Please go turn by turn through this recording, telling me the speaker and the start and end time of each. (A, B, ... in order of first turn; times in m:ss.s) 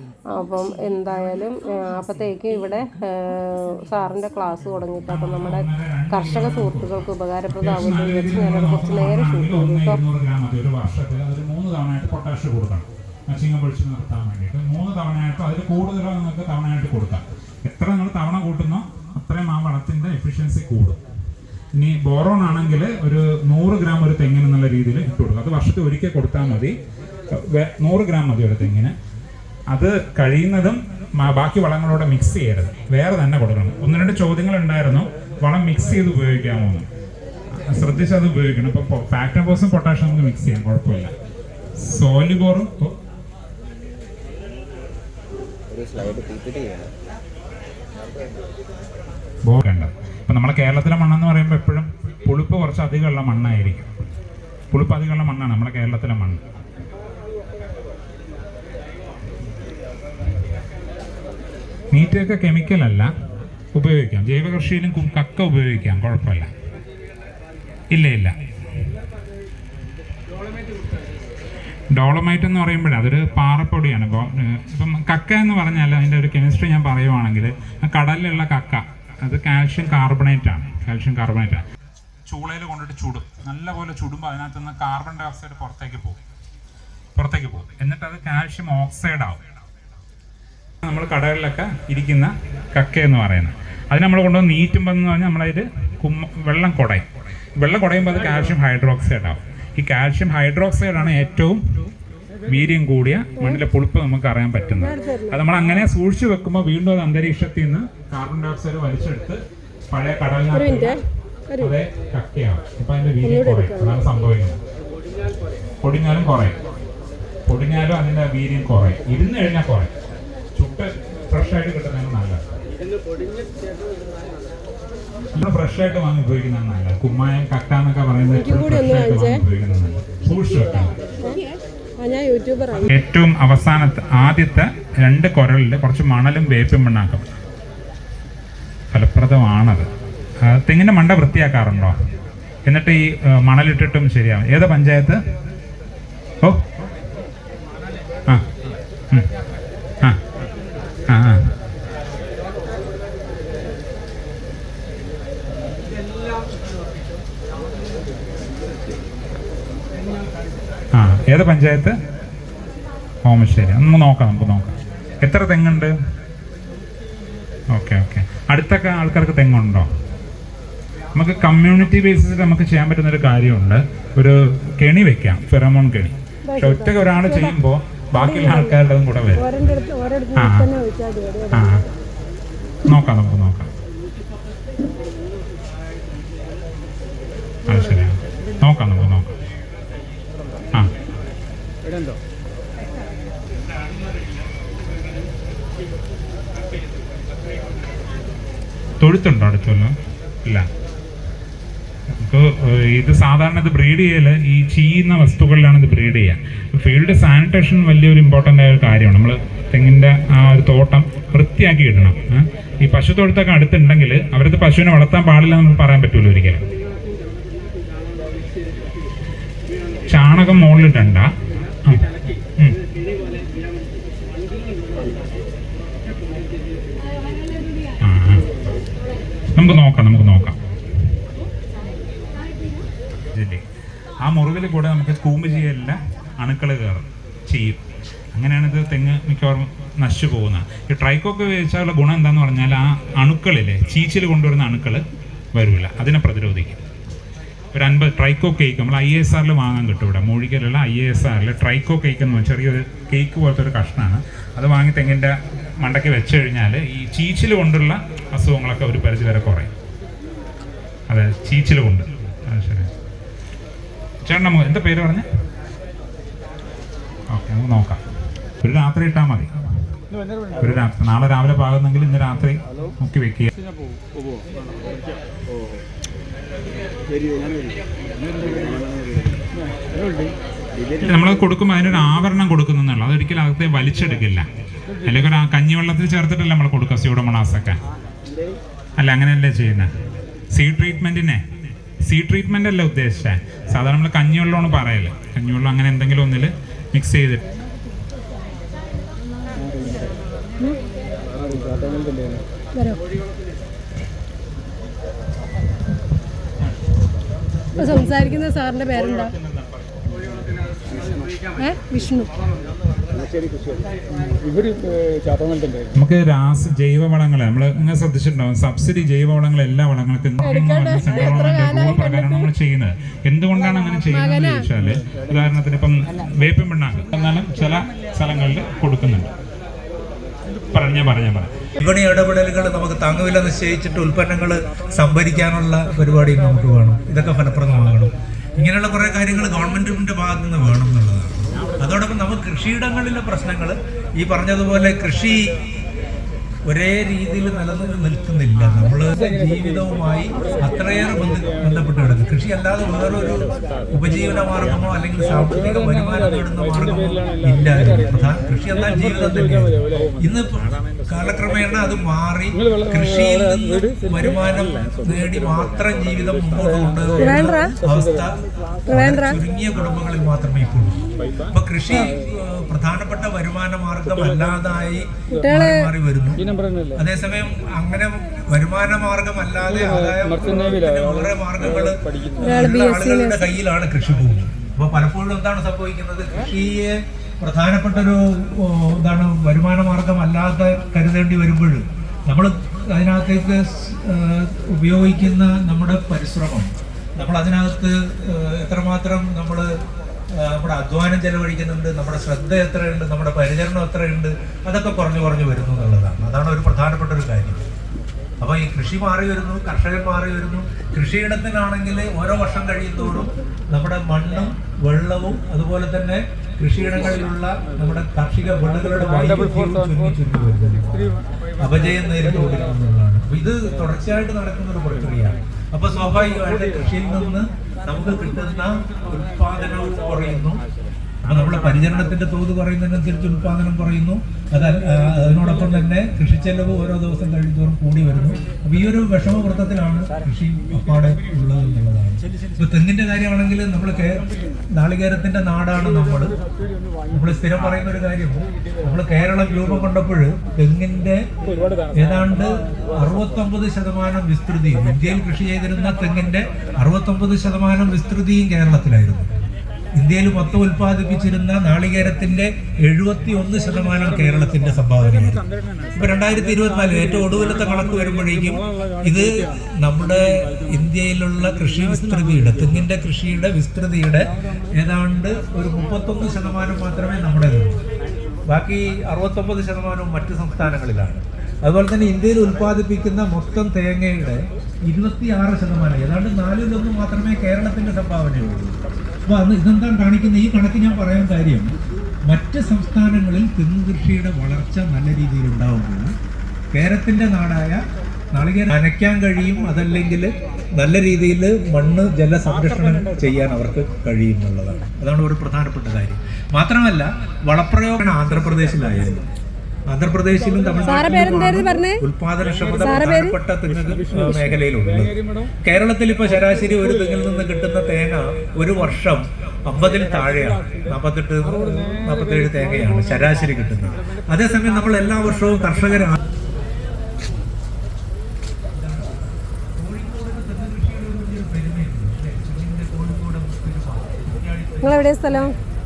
0:00.3-0:10.0 A
0:05.1-0:07.0 B
0:07.5-0:21.0 B
0:21.8-0:26.8 B
0:27.3-0:28.9 B
0:29.7-0:36.8 B
0:37.5-0:41.1 B
0:41.8-0:42.9 B
0:49.4-0:53.9 B
0:54.7-0:56.4 B
1:01.9-1:03.1 B
1:03.7-1:06.5 B
1:07.9-1:08.3 B
1:11.9-1:21.6 B
1:22.2-1:26.2 B
1:27.1-1:29.4 B
1:30.8-1:37.0 B
1:37.6-1:41.9 B
1:42.5-1:51.0 B
1:44.8-1:45.4 A
1:50.5-1:51.8 A
1:51.6-1:54.6 B
1:53.2-1:54.0 A
1:55.8-1:56.6 B
1:57.4-1:59.9 B
2:00.5-2:02.4 B
2:05.3-2:10.9 B
2:08.3-2:09.4 A
2:11.2-2:12.9 A
2:12.7-2:17.2 B
2:18.9-2:19.9 B
2:20.4-2:22.0 B
2:22.6-2:25.2 B
2:31.1-2:31.5 B
2:40.9-2:42.0 B
2:43.2-2:45.9 B
2:47.7-2:49.9 B
2:51.1-2:59.4 B
2:56.5-2:57.6 A
2:58.2-2:58.8 A
2:59.3-3:01.8 A
3:00.3-3:00.7 B
3:02.9-3:03.7 B
3:07.7-3:09.3 B
3:19.0-3:20.6 B
3:22.1-3:36.6 B
3:40.1-3:41.3 B
3:48.0-3:48.6 B
3:49.5-3:50.6 B
3:53.3-3:53.6 B
3:54.2-3:57.8 B
3:58.3-4:05.0 B
4:05.5-4:06.8 B
4:07.7-4:19.7 B
4:21.1-4:22.9 B
4:24.2-4:25.2 B
4:27.3-4:28.0 B
4:28.6-4:29.5 B
4:30.6-4:33.5 B
4:41.0-4:44.4 B
4:45.0-4:47.8 B
4:49.0-4:49.9 B
4:50.5-4:51.4 B
4:52.0-4:57.4 B
5:02.8-5:03.0 A
5:07.8-5:09.3 A
5:11.6-5:12.3 A
5:15.9-5:29.3 B
5:20.4-5:22.4 A
5:23.8-5:24.7 A
5:30.7-5:31.5 B
5:31.8-5:45.5 C
5:46.6-6:16.4 C
6:07.2-6:07.7 A
6:08.9-6:09.4 A
6:15.3-6:15.9 A
6:16.9-6:39.8 C
6:22.4-6:23.4 A
6:40.3-6:47.6 C
6:48.4-7:01.0 C
7:01.6-7:10.6 C
7:11.2-7:26.4 C
7:27.1-7:31.3 C
7:31.9-7:39.3 C
7:39.9-7:57.8 C
7:58.5-8:11.7 C
8:12.2-8:16.1 C
8:16.7-8:29.2 C
8:29.9-8:46.2 C
8:30.8-8:32.0 A
8:32.8-8:33.4 A
8:48.7-8:55.6 C
8:54.8-8:55.5 A